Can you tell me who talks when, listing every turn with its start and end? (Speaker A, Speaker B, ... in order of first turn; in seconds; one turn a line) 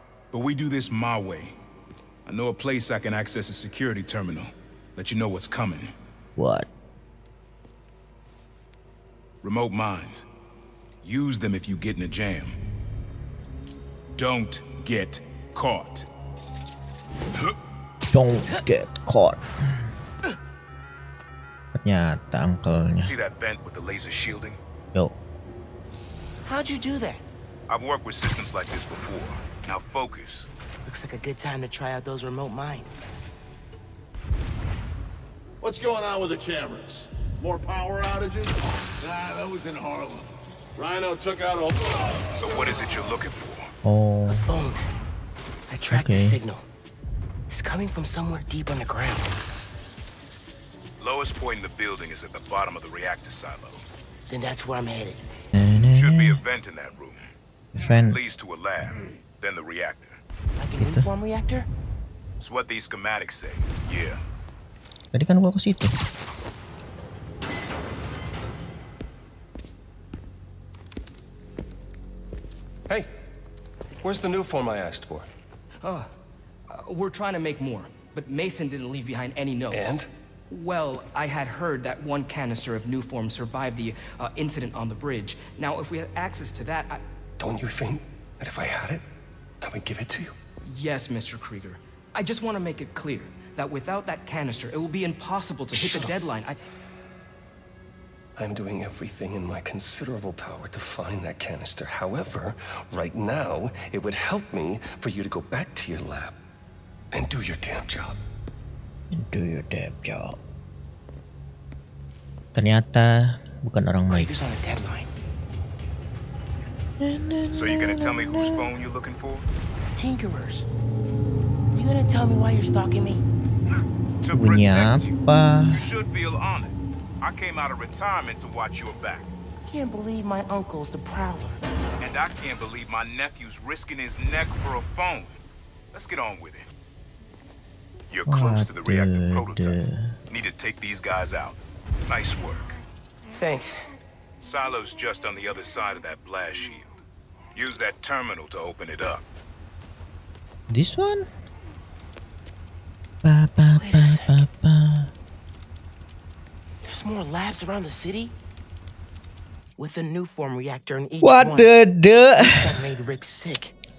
Speaker A: 0.3-1.6
Speaker A: 2.3-5.9
Speaker B: 6.4-6.7
Speaker A: 9.4-10.3
Speaker A: 11.0-12.6
Speaker A: 14.2-16.1
Speaker B: 18.1-19.4
Speaker B: 21.7-23.1
Speaker A: 23.0-24.6
Speaker C: 26.4-27.2
Speaker A: 27.7-30.5
Speaker C: 30.9-33.0
Speaker D: 35.6-42.0
Speaker A: 42.4-43.7
Speaker B: 43.8-44.5
Speaker C: 44.3-44.8
Speaker C: 45.7-46.6
Speaker B: 45.9-46.4
Speaker C: 47.5-49.4
Speaker A: 51.0-53.9
Speaker C: 54.3-55.2
Speaker B: 55.5-56.4
Speaker A: 55.9-57.3
Speaker B: 57.8-58.2
Speaker A: 58.1-60.2
Speaker C: 60.6-61.7
Speaker B: 60.8-61.1
Speaker A: 62.4-64.2
Speaker B: 65.1-65.9
Speaker E: 74.0-75.3
Speaker F: 75.8-76.1
Speaker F: 76.7-87.0
Speaker E: 79.7-80.1
Speaker E: 87.4-89.0
Speaker E: 89.6-90.3
Speaker F: 90.6-96.6
Speaker E: 95.7-96.1
Speaker E: 98.4-106.4
Speaker E: 107.1-108.2
Speaker B: 109.1-110.4
Speaker B: 112.5-114.3
Speaker C: 114.1-115.1
Speaker B: 117.0-118.7
Speaker A: 117.5-119.5
Speaker C: 119.9-120.7
Speaker C: 121.7-123.2
Speaker A: 124.2-129.3
Speaker B: 124.3-125.8
Speaker C: 129.6-131.6
Speaker A: 132.0-135.4
Speaker A: 135.9-136.7
Speaker A: 138.1-139.8
Speaker B: 138.3-140.0
Speaker A: 140.3-142.8
Speaker C: 143.3-143.8
Speaker A: 144.4-146.9
Speaker A: 147.6-149.2
Speaker B: 150.7-151.3
Speaker B: 153.2-155.1
Speaker C: 153.8-154.4
Speaker C: 156.8-158.3
Speaker C: 159.8-161.7
Speaker B: 161.2-162.5
Speaker C: 162.3-163.7